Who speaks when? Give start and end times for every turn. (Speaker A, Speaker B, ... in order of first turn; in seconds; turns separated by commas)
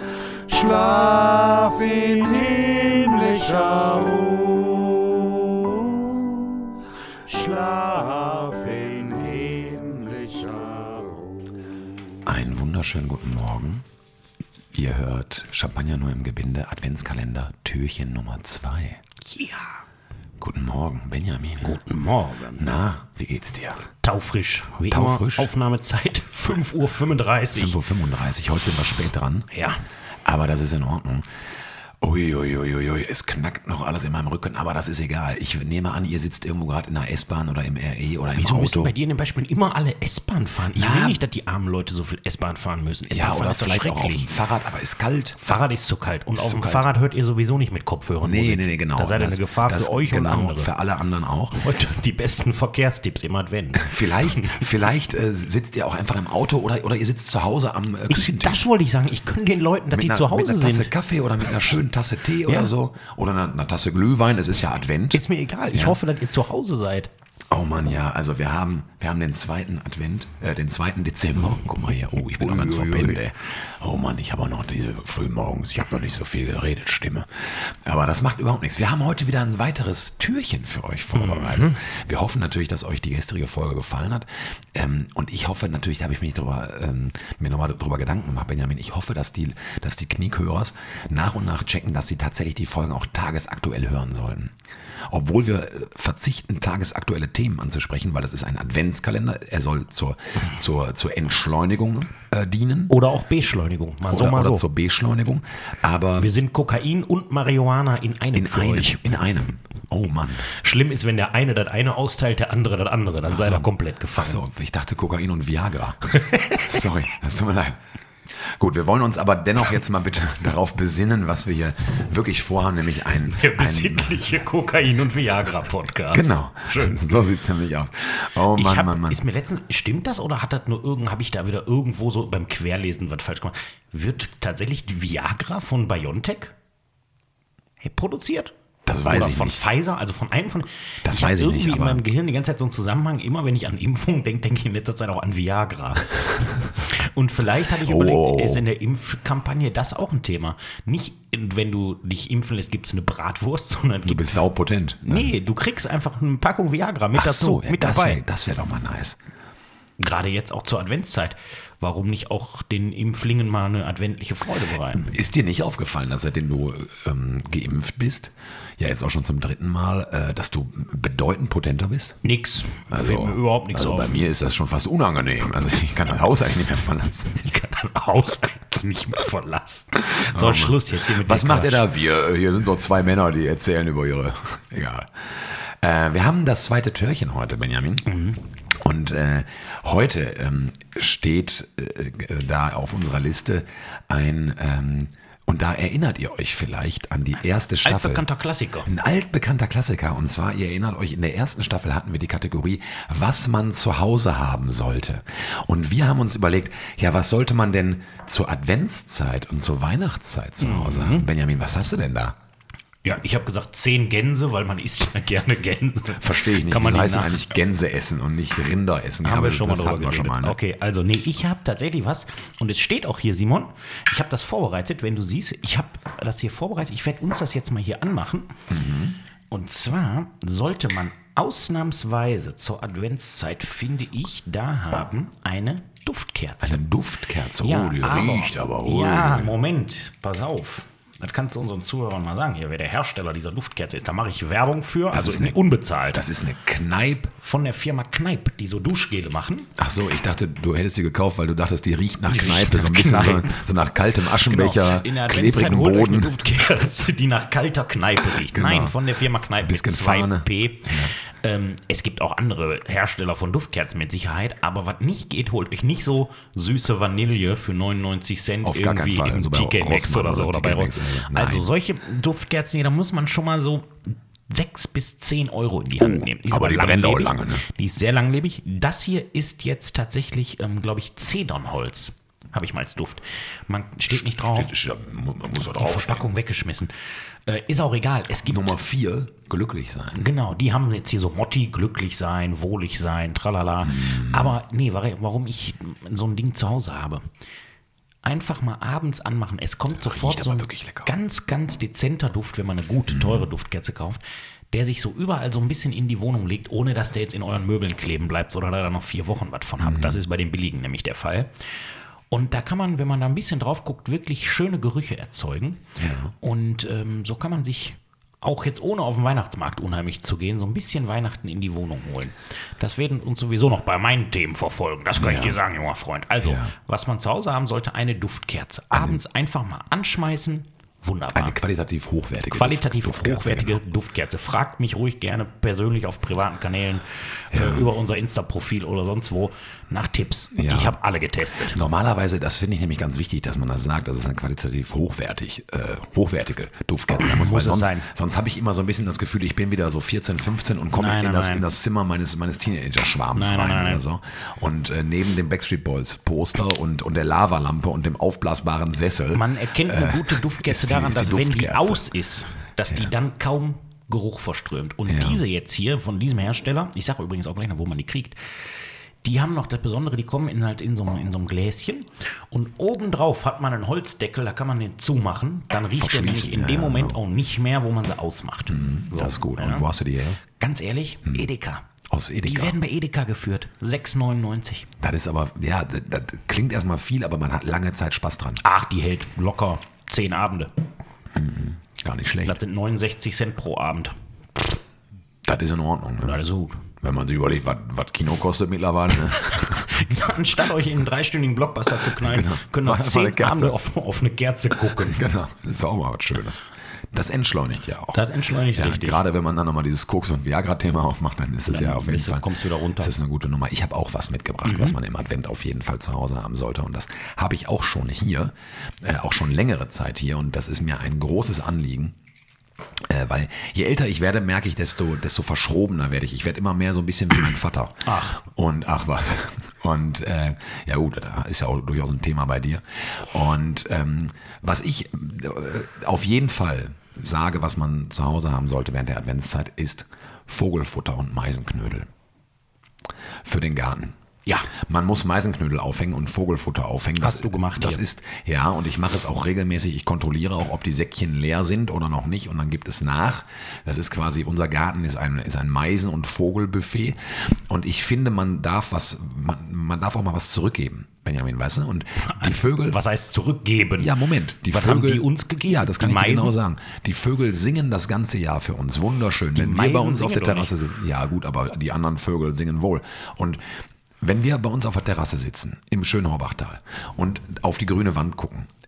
Speaker A: 0.4-6.7, Speaker A: 7.3-11.4, Speaker B: 12.3-13.8, Speaker B: 14.7-19.0, Speaker C: 19.2-19.8, Speaker B: 20.4-21.8, Speaker C: 21.6-22.7, Speaker B: 22.6-23.9, Speaker C: 24.0-27.8, Speaker B: 24.9-25.5, Speaker B: 27.5-29.5, Speaker C: 29.5-29.8, Speaker B: 30.2-31.3, Speaker B: 32.0-38.9, Speaker C: 38.4-44.3, Speaker B: 40.7-41.2, Speaker B: 43.1-45.6, Speaker C: 45.4-50.7, Speaker B: 46.4-46.9, Speaker B: 48.2-51.6, Speaker C: 51.5-54.7, Speaker B: 53.8-58.7, Speaker C: 58.1-60.9, Speaker B: 59.9-66.0, Speaker C: 62.5-62.7, Speaker C: 65.1-67.1, Speaker B: 67.5-94.5, Speaker C: 72.4-73.2, Speaker C: 81.2-81.8, Speaker B: 95.1-102.9, Speaker C: 102.9-104.7, Speaker B: 104.1-106.3, Speaker C: 106.2-109.2, Speaker B: 108.3-110.5, Speaker C: 110.5-114.4, Speaker B: 113.2-117.8, Speaker C: 116.2-116.6, Speaker B: 118.4-124.3, Speaker C: 123.3-127.2, Speaker B: 126.1-129.2, Speaker C: 128.5-136.6, Speaker C: 137.8-154.4, Speaker B: 138.9-139.6, Speaker B: 141.1-142.1, Speaker B: 147.8-148.7, Speaker B: 154.1-155.3, Speaker C: 155.0-158.2, Speaker B: 157.2-159.2, Speaker C: 160.0-165.1, Speaker B: 164.9-172.2, Speaker C: 172.2-174.2, Speaker B: 172.9-177.5, Speaker C: 177.3-181.8, Speaker B: 180.2-188.1, Speaker C: 188.1-188.4, Speaker B: 188.8-198.2, Speaker C: 197.8-198.9, Speaker B: 198.8-212.3, Speaker C: 210.6-211.3, Speaker C: 213.0-217.5, Speaker B: 216.2-220.6, Speaker C: 219.2-228.5, Speaker B: 228.7-229.2, Speaker C: 229.5-236.8, Speaker B: 236.6-239.6, Speaker C: 237.6-246.3, Speaker B: 245.1-245.6, Speaker B: 246.1-247.3, Speaker C: 247.4-249.7, Speaker B: 249.8-256.4, Speaker C: 252.2-253.6, Speaker C: 254.4-284.8, Speaker B: 258.3-259.0, Speaker B: 259.6-261.1, Speaker B: 268.6-271.7, Speaker B: 276.0-277.6, Speaker B: 284.5-286.3, Speaker C: 285.6-286.9, Speaker C: 287.5-288.8, Speaker B: 288.5-290.3, Speaker C: 290.1-297.2, Speaker B: 293.8-294.6, Speaker C: 298.2-304.2, Speaker B: 300.0-301.1, Speaker B: 303.1-303.4, Speaker C: 304.7-311.5, Speaker B: 309.8-310.2, Speaker C: 312.3-315.8, Speaker B: 316.0-316.3, Speaker C: 316.4-331.6, Speaker B: 325.2-325.6, Speaker B: 326.4-326.7, Speaker B: 328.9-329.2, Speaker B: 331.3-333.8, Speaker C: 332.5-341.8, Speaker B: 337.5-337.9, Speaker B: 340.6-341.0, Speaker B: 341.6-362.1, Speaker C: 347.1-348.1, Speaker C: 350.9-351.7, Speaker C: 353.3-354.0, Speaker C: 359.3-368.4, Speaker B: 365.1-365.4, Speaker C: 369.2-379.9, Speaker B: 375.9-377.2, Speaker B: 378.7-380.4, Speaker C: 380.5-381.9, Speaker B: 382.1-382.8, Speaker C: 382.4-384.9, Speaker B: 385.0-388.6, Speaker C: 388.6-390.7, Speaker B: 391.3-392.6, Speaker C: 392.4-394.8, Speaker B: 395.5-396.4, Speaker C: 396.2-396.9, Speaker B: 397.0-399.9, Speaker C: 399.4-405.2, Speaker B: 402.0-403.8, Speaker B: 404.9-422.1, Speaker C: 408.1-409.2, Speaker C: 411.7-413.1, Speaker C: 414.6-415.0, Speaker B: 423.1-442.1, Speaker C: 428.1-428.4, Speaker B: 443.4-444.1, Speaker C: 444.5-444.7, Speaker B: 444.7-463.0, Speaker C: 447.2-448.0, Speaker C: 462.2-464.1, Speaker B: 464.0-473.6, Speaker C: 464.7-466.6, Speaker C: 469.6-470.7, Speaker B: 474.2-478.7